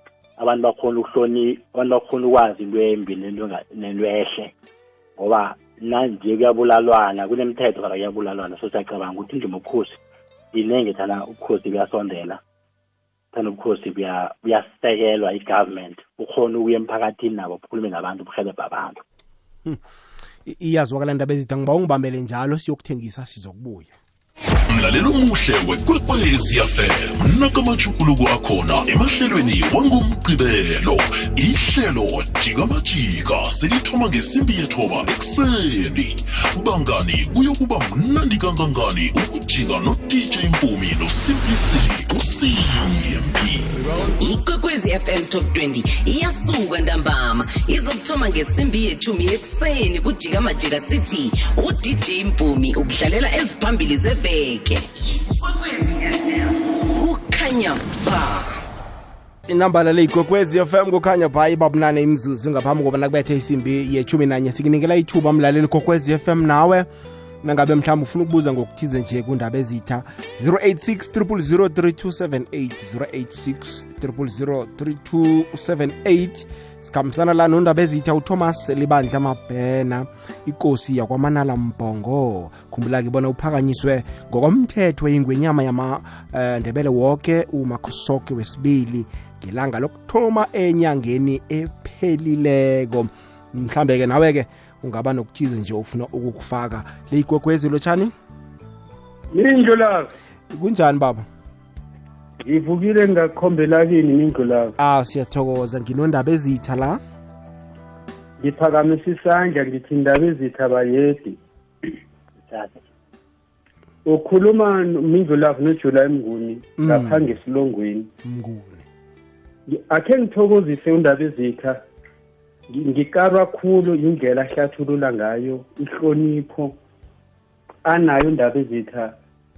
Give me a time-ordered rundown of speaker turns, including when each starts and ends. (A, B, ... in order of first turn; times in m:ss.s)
0:00.4-0:04.5 A
0:05.2-0:10.0 A
0:10.5-0:12.4 A
0:13.3-0:19.0 A
0:20.4-0:24.0 B
0:24.7-0:43.7 C
0:44.1-0:58.6 D
0:59.5-1:06.9 B
1:07.4-1:38.1 B
1:39.3-1:40.1 E
1:40.5-1:41.2 B
1:42.4-1:44.7 E
1:44.8-1:47.0 B
1:48.4-1:51.9 E
1:52.5-1:52.8 A
1:54.1-1:58.1 E
1:56.8-1:57.2 B
1:58.2-1:58.8 B
1:59.7-2:01.8 E
2:02.7-2:06.7 E
2:07.8-2:09.1 E